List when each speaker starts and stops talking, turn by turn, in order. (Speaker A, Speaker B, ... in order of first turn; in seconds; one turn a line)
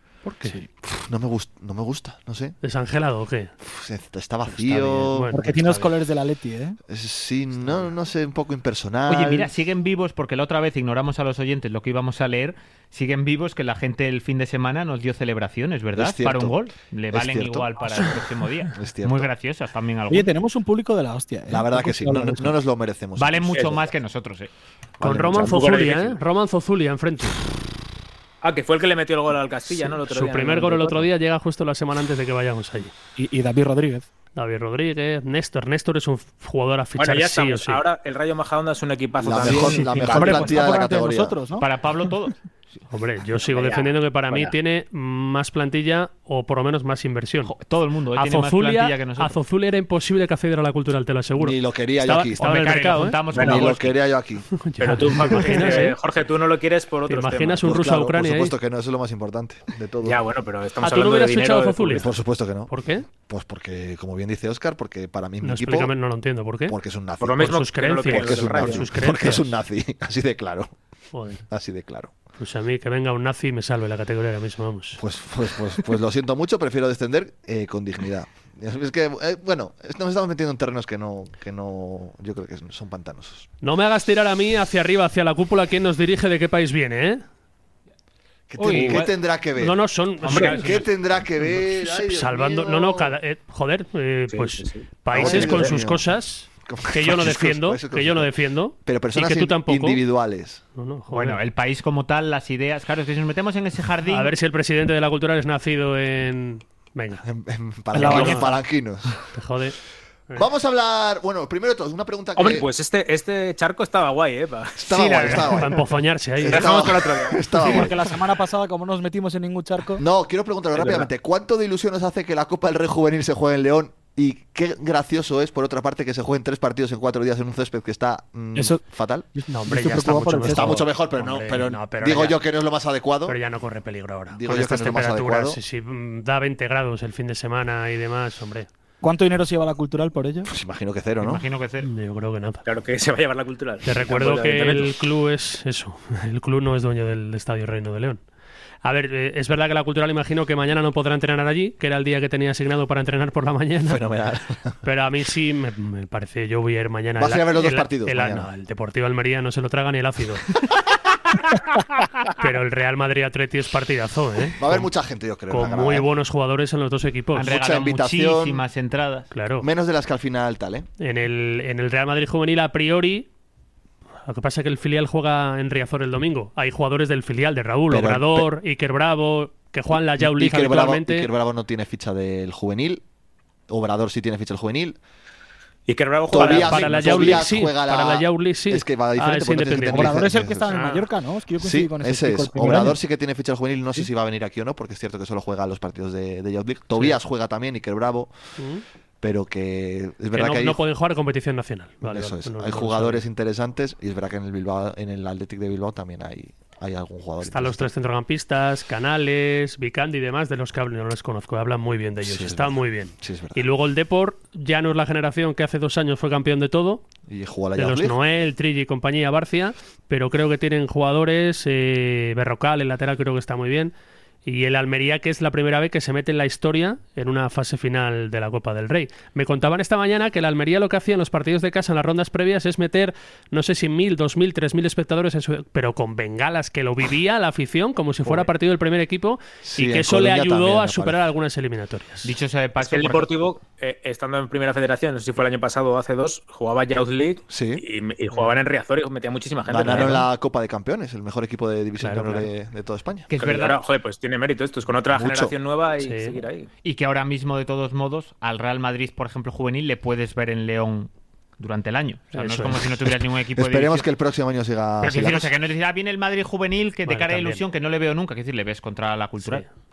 Speaker A: 0.2-0.6
Speaker B: 0.8-2.5
Speaker A: 2.6-3.5
Speaker B: 3.6-5.3
Speaker A: 4.6-5.9
Speaker C: 5.3-6.8
Speaker B: 6.9-9.5
Speaker D: 9.1-20.3
Speaker B: 15.9-16.6
Speaker B: 17.1-17.7
Speaker B: 18.7-19.3
Speaker C: 20.1-22.5
Speaker B: 21.5-23.8
Speaker D: 23.1-24.5
Speaker B: 25.0-25.6
Speaker A: 25.0-27.4
Speaker E: 25.4-26.2
Speaker E: 28.4-31.1
Speaker A: 30.0-32.9
Speaker C: 33.1-34.0
Speaker A: 34.4-37.8
Speaker E: 37.0-40.4
Speaker B: 39.2-41.4
Speaker C: 39.5-41.6
Speaker D: 41.6-42.4
Speaker A: 42.9-47.5
Speaker E: 43.4-44.5
Speaker D: 47.4-49.4
Speaker A: 48.1-53.2
Speaker B: 51.4-52.4
Speaker D: 52.4-54.0
Speaker E: 53.3-53.7
Speaker B: 53.3-54.5
Speaker A: 54.6-56.0
Speaker E: 54.8-57.7
Speaker A: 57.1-58.5
Speaker B: 57.6-60.2
Speaker E: 60.0-62.1
Speaker A: 60.8-62.1
Speaker B: 62.0-65.9
Speaker A: 62.6-63.0
Speaker A: 65.4-66.8
Speaker B: 66.7-70.7
Speaker E: 67.2-68.9
Speaker A: 67.4-69.5
Speaker A: 71.1-71.4
Speaker B: 71.5-72.1
Speaker A: 72.4-75.0
Speaker B: 75.0-83.5
Speaker A: 83.6-87.2
Speaker B: 88.5-93.1
Speaker E: 88.6-89.1
Speaker D: 88.6-89.0
Speaker A: 89.5-90.8
Speaker E: 90.3-90.7
Speaker D: 90.3-90.8
Speaker A: 91.8-100.0
Speaker E: 94.3-95.7
Speaker B: 95.1-96.1
Speaker B: 96.6-100.6
Speaker A: 100.8-101.4
Speaker D: 101.1-104.3
Speaker A: 104.1-107.2
Speaker B: 107.2-109.2
Speaker A: 107.9-108.5
Speaker C: 107.9-108.5
Speaker A: 109.3-109.8
Speaker B: 110.4-112.7
Speaker E: 112.4-115.5
Speaker B: 114.8-115.8
Speaker D: 114.9-115.8
Speaker A: 115.6-116.8
Speaker B: 116.4-118.0
Speaker E: 116.5-117.7
Speaker C: 117.6-120.0
Speaker B: 120.0-129.3
Speaker E: 120.8-121.1
Speaker C: 128.6-128.8
Speaker C: 129.4-130.8
Speaker A: 129.5-132.4
Speaker B: 130.4-133.4
Speaker A: 133.3-138.7
Speaker B: 134.3-135.6
Speaker C: 139.0-140.5
Speaker B: 140.5-141.4
Speaker D: 141.2-141.9
Speaker A: 141.8-142.6
Speaker E: 142.7-145.0
Speaker A: 143.8-148.2
Speaker A: 148.8-154.0
Speaker B: 153.8-154.8
Speaker A: 154.8-160.5
Speaker B: 157.2-158.5
Speaker A: 162.3-164.9
Speaker B: 164.6-166.1
Speaker A: 165.5-167.5
Speaker D: 167.3-169.3
Speaker B: 167.4-168.6
Speaker A: 169.3-169.7
Speaker B: 169.6-170.9
Speaker A: 171.0-173.3
Speaker A: 174.3-181.3
Speaker B: 177.9-178.5
Speaker B: 179.9-183.0
Speaker B: 183.7-185.0
Speaker E: 185.9-187.4
Speaker B: 186.3-190.8
Speaker A: 186.3-190.2
Speaker C: 189.9-193.0
Speaker B: 191.6-198.3
Speaker A: 198.6-198.8
Speaker B: 199.2-200.8
Speaker A: 200.3-203.3
Speaker B: 202.0-207.9
Speaker A: 207.4-217.0
Speaker B: 212.2-213.7
Speaker B: 217.3-218.2
Speaker A: 217.8-223.9
Speaker A: 224.4-242.3
Speaker B: 239.6-241.2
Speaker D: 242.2-243.3
Speaker E: 242.8-250.3
Speaker B: 247.5-247.8
Speaker A: 248.3-248.6
Speaker B: 249.7-253.3
Speaker A: 249.9-250.2
Speaker A: 252.0-252.5
Speaker D: 253.3-253.8
Speaker E: 253.4-256.7
Speaker B: 255.1-255.5
Speaker A: 256.0-256.4
Speaker D: 256.8-264.1
Speaker A: 262.3-262.8
Speaker B: 263.6-265.5
Speaker D: 265.0-269.6
Speaker A: 267.1-267.6
Speaker A: 269.4-269.7